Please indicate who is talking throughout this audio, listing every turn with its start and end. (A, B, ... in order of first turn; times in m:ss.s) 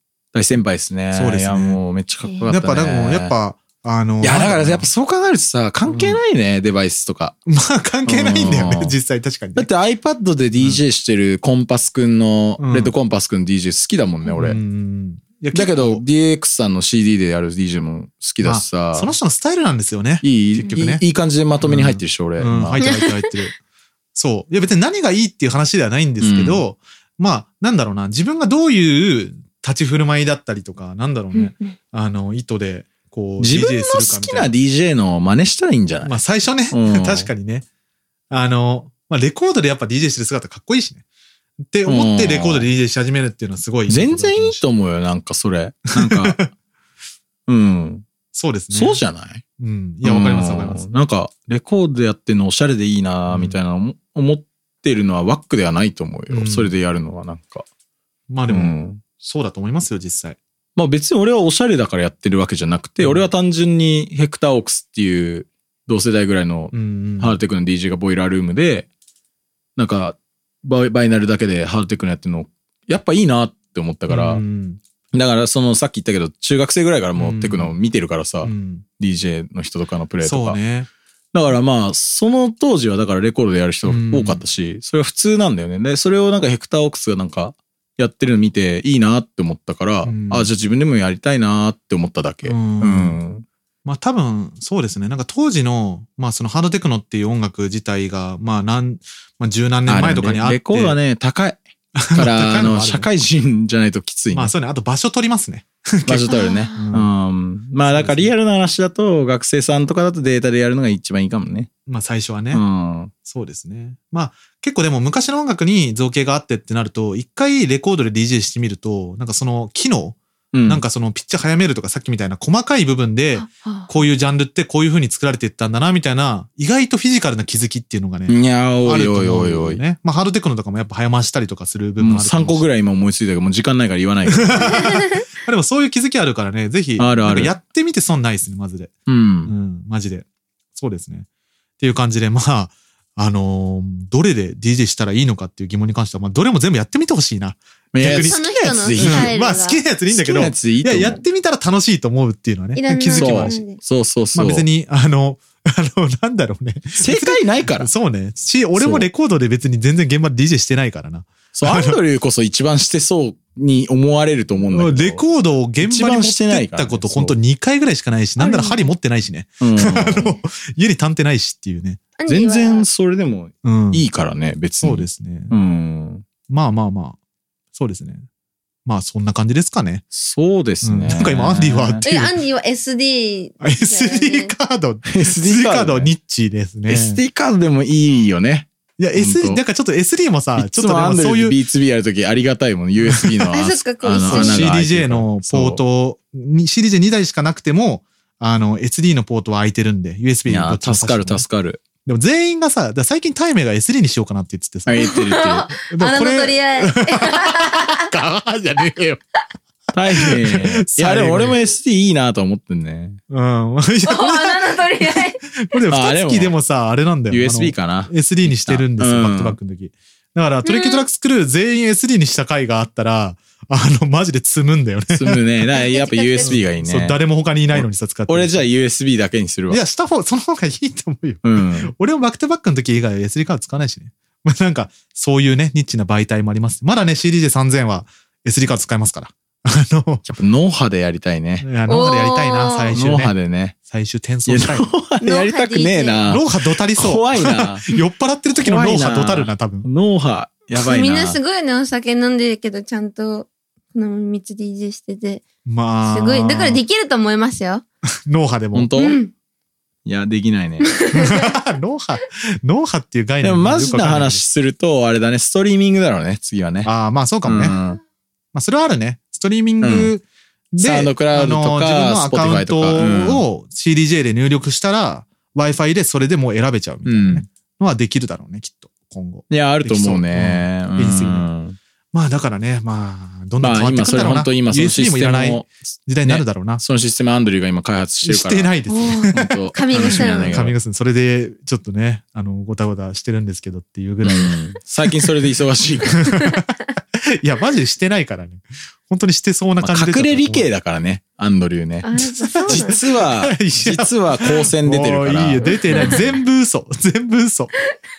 0:00.3-0:03.4 A
0:01.1-0:01.8 B
0:02.5-0:04.9 B
0:04.2-0:07.4 A
0:05.9-0:06.2 B
0:07.5-0:09.7 B
0:08.1-0:09.0 A
0:09.6-0:14.6 A
0:10.6-0:10.8 B
0:12.6-0:12.9 B
0:14.3-0:16.0 B
0:15.5-0:19.1 A
0:18.4-0:21.0 B
0:20.2-0:22.8 A
0:21.6-0:23.6 B
0:22.8-0:23.3 C
0:24.2-0:34.5 B
0:26.2-0:26.6 A
0:31.3-0:31.8 C
0:33.4-0:36.2 A
0:36.0-0:37.7 B
0:36.7-0:37.3 A
0:38.3-0:41.0 B
0:41.7-0:44.6 B
0:41.9-0:42.7 A
0:43.9-0:46.4 A
0:46.0-0:46.5 B
0:47.5-0:48.1 A
0:48.3-0:49.0 B
0:48.7-0:49.4 A
0:49.6-0:50.8 B
0:50.0-0:57.7 A
0:53.3-0:53.6 B
0:56.3-0:56.7 B
0:58.3-1:00.4 B
0:58.5-0:59.0 A
1:00.8-1:08.9 A
1:06.7-1:07.4 B
1:09.8-1:14.4 A
1:14.1-1:14.8 B
1:15.1-1:20.6 A
1:17.2-1:17.8 B
1:18.4-1:18.8 B
1:20.2-1:20.9 B
1:21.3-1:33.4 A
1:23.8-1:24.4 B
1:30.1-1:30.5 B
1:32.4-1:33.2 B
1:33.8-1:41.0 B
1:39.9-1:44.5 A
1:42.0-1:43.1 B
1:44.3-1:47.1 B
1:46.1-1:51.7 A
1:46.3-1:46.8 C
1:47.8-1:48.3 B
1:51.9-1:52.6 B
1:52.5-1:53.1 A
1:53.2-2:12.6 B
2:00.5-2:00.8 A
2:03.4-2:03.9 C
2:08.3-2:09.8 A
2:12.0-2:14.9 A
2:14.3-2:18.9 B
2:17.0-2:17.6 A
2:19.1-2:19.5 A
2:19.5-2:21.3 B
2:21.8-2:28.4 B
2:27.9-2:29.3 A
2:28.1-2:29.8 C
2:29.0-2:33.6 B
2:30.1-2:31.2 A
2:32.8-2:33.8 C
2:33.2-2:34.7 A
2:34.3-2:42.0 B
2:37.0-2:37.9 A
2:38.8-2:39.1 A
2:41.5-2:45.2 A
2:44.7-2:52.0 B
2:45.8-2:47.4 A
2:48.4-2:48.8 C
2:49.6-2:50.4 A
2:52.2-2:52.9 C
2:52.3-2:56.2 A
2:53.6-2:54.0 B
2:54.8-2:55.6 B
2:56.5-2:57.2 B
2:57.8-2:58.3 B
2:58.9-3:00.0 B
3:00.1-3:02.1 A
3:00.8-3:02.3 B
3:02.0-3:04.5 C
3:03.6-3:07.2 B
3:05.1-3:06.1 A
3:06.9-3:09.6 A
3:09.0-3:11.6 B
3:10.6-3:15.8 A
3:13.1-3:13.4 B
3:13.5-3:14.7 C
3:14.3-3:21.4 B
3:20.5-3:21.8 A
3:22.0-3:25.2 B
3:24.9-3:25.7 A
3:25.0-3:28.1 C
3:25.9-3:29.2 B
3:29.9-3:33.2 A
3:30.2-3:31.6 B
3:33.3-3:45.4 B
3:34.0-3:35.4 C
3:35.9-3:36.6 A
3:37.3-3:39.6 A
3:40.6-3:41.1 C
3:45.1-3:47.2 A
3:45.7-3:46.6 C
3:46.4-3:48.7 B
3:47.7-3:49.8 A
3:49.7-4:00.3 B
3:51.4-3:51.9 A
4:00.2-4:01.7 A
4:01.6-4:04.9 B
4:01.9-4:03.0 C
4:03.0-4:03.8 A
4:04.5-4:07.9 A
4:05.2-4:06.3 C
4:06.3-4:09.9 B
4:08.5-4:11.4 A
4:10.8-4:15.4 C
4:15.6-4:16.8 B
4:16.0-4:17.8 C
4:18.3-4:18.9 B
4:18.7-4:19.2 A
4:19.0-4:19.3 C
4:20.0-4:20.9 A
4:20.8-4:21.5 C
4:21.1-4:24.4 B
4:23.4-4:26.9 A
4:26.8-4:27.8 B
4:27.4-4:28.0 A
4:28.5-4:41.5 B
4:29.8-4:30.1 A
4:30.8-4:33.4 A
4:37.0-4:37.4 A
4:39.5-4:41.8 A
4:42.1-4:46.8 B
4:43.6-4:45.7 A
4:46.2-4:48.8 A
4:48.2-4:54.6 B
4:48.9-4:50.6 C
4:49.3-4:50.8 A
4:54.2-4:56.3 A
4:56.2-5:00.7 B
4:59.8-5:06.3 A
5:02.0-5:03.0 C
5:02.2-5:07.7 B
5:05.7-5:06.2 C